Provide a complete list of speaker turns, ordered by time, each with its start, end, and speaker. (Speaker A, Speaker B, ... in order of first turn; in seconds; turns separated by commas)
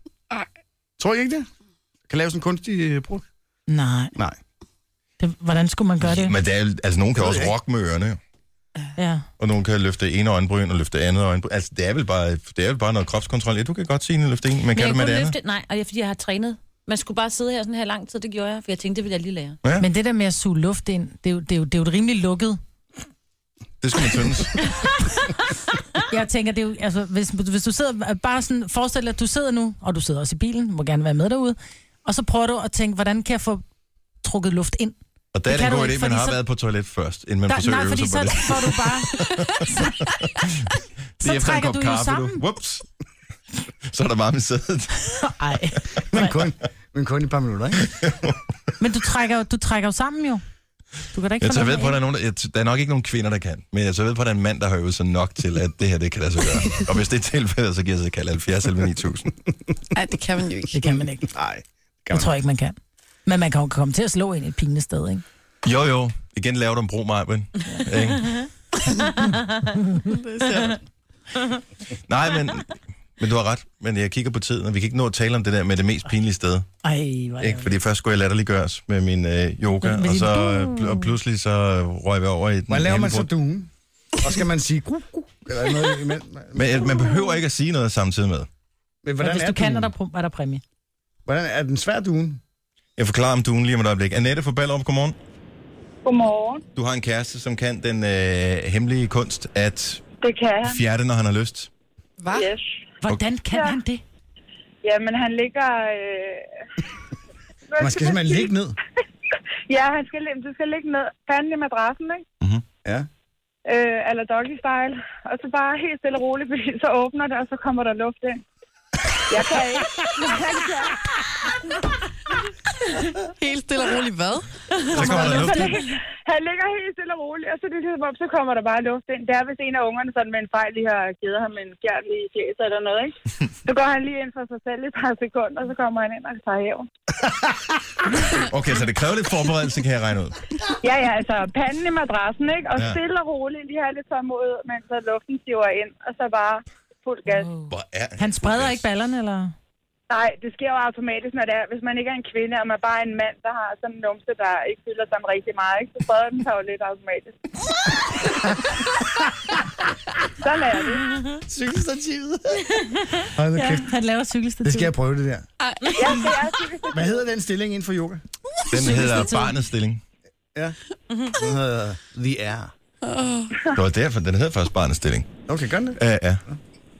Speaker A: 1.0-1.5, Speaker A: 2.1-3.2, Speaker B: 3.7-4.2, Speaker B: 5.2-6.3, Speaker C: 6.0-8.2, Speaker A: 7.2-7.5, Speaker B: 9.0-9.2, Speaker C: 9.4-15.3, Speaker D: 14.7-19.6, Speaker B: 19.8-22.6, Speaker C: 23.8-24.6, Speaker B: 26.1-33.6, Speaker B: 34.2-36.4, Speaker C: 35.3-42.8, Speaker B: 37.5-39.9, Speaker B: 41.2-42.4, Speaker C: 43.8-45.1, Speaker B: 45.2-46.4, Speaker A: 46.1-47.9, Speaker C: 47.9-48.4, Speaker B: 48.8-50.4, Speaker B: 51.1-52.0, Speaker C: 51.4-59.3, Speaker E: 59.9-60.9, Speaker B: 60.7-61.2, Speaker A: 61.2-62.3, Speaker B: 62.1-65.2, Speaker C: 65.6-68.4, Speaker E: 70.0-70.8, Speaker C: 72.1-76.7, Speaker B: 76.8-77.7, Speaker C: 77.4-83.3, Speaker B: 79.8-81.1, Speaker A: 82.7-87.1, Speaker C: 86.5-88.5, Speaker A: 89.0-89.9, Speaker B: 89.2-90.6, Speaker A: 91.2-92.4, Speaker C: 93.0-95.2, Speaker F: 96.0-96.6, Speaker C: 96.7-100.0, Speaker F: 100.2-100.8, Speaker C: 100.6-101.7, Speaker E: 102.2-102.5, Speaker F: 102.3-102.6, Speaker B: 103.0-104.0, Speaker F: 103.5-103.8, Speaker F: 104.8-106.5, Speaker F: 107.7-108.5, Speaker A: 107.8-108.7, Speaker F: 109.7-112.2, Speaker F: 113.7-118.4, Speaker F: 119.3-121.0, Speaker E: 123.0-125.4, Speaker C: 124.9-125.8, Speaker F: 125.0-136.9, Speaker C: 138.3-140.4, Speaker F: 140.8-147.5, Speaker B: 147.4-147.7, Speaker C: 147.7-148.8, Speaker B: 148.2-149.5, Speaker F: 150.1-157.4, Speaker F: 160.4-161.2, Speaker A: 161.4-163.9, Speaker B: 163.5-164.9, Speaker A: 164.6-165.5, Speaker E: 165.6-166.4, Speaker F: 165.9-167.2, Speaker A: 166.9-168.2, Speaker B: 168.7-169.6, Speaker C: 168.7-170.0, Speaker A: 170.5-172.7, Speaker E: 173.0-173.6, Speaker C: 173.7-175.3, Speaker A: 175.5-176.6, Speaker C: 175.9-176.4